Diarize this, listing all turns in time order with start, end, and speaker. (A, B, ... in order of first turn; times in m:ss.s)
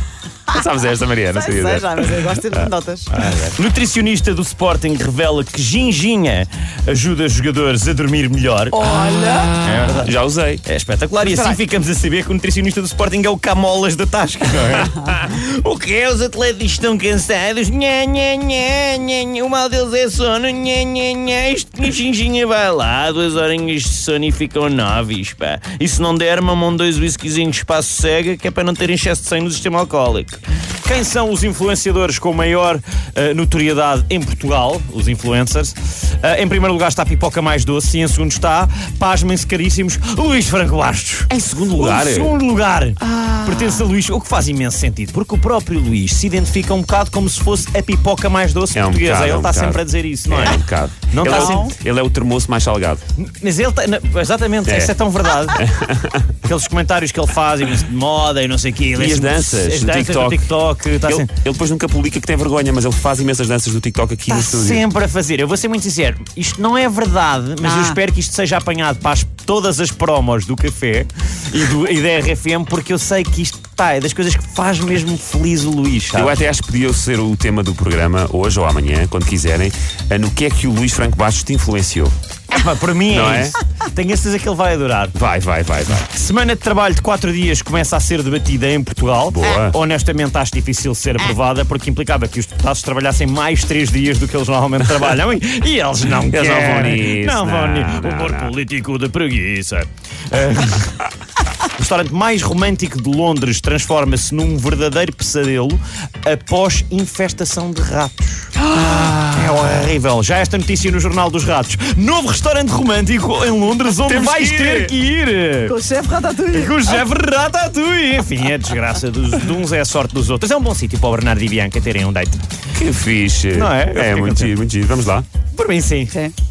0:00.5-0:03.5 A
0:01.3-0:03.3 B
0:03.5-0:08.8 C
0:08.7-0:09.6 B
0:08.9-0:10.6 A
0:09.6-0:51.7 C
0:11.2-0:11.6 B
0:41.3-0:42.4 A
0:43.0-0:43.9 A
0:48.7-0:53.0 A
0:51.3-0:51.7 B
0:53.2-0:55.6 C
0:54.6-0:54.9 A
0:55.4-0:56.3 A
0:56.4-1:01.3 C
0:58.9-1:00.5 A
1:01.0-1:04.8 A
1:04.3-1:16.4 C
1:07.6-1:07.9 B
1:16.1-1:22.1 A
1:22.5-1:25.1 C
1:23.1-1:23.6 A
1:25.1-1:26.1 A
1:26.0-1:41.0 C
1:29.3-1:29.8 A
1:36.2-1:38.5 A
1:41.6-1:55.8 C
1:48.8-1:49.6 A
1:54.0-1:54.9 A
1:55.6-1:56.9 B
1:56.5-2:02.4 C
2:02.7-2:05.2 A
2:03.5-2:04.6 C
2:05.5-2:06.3 C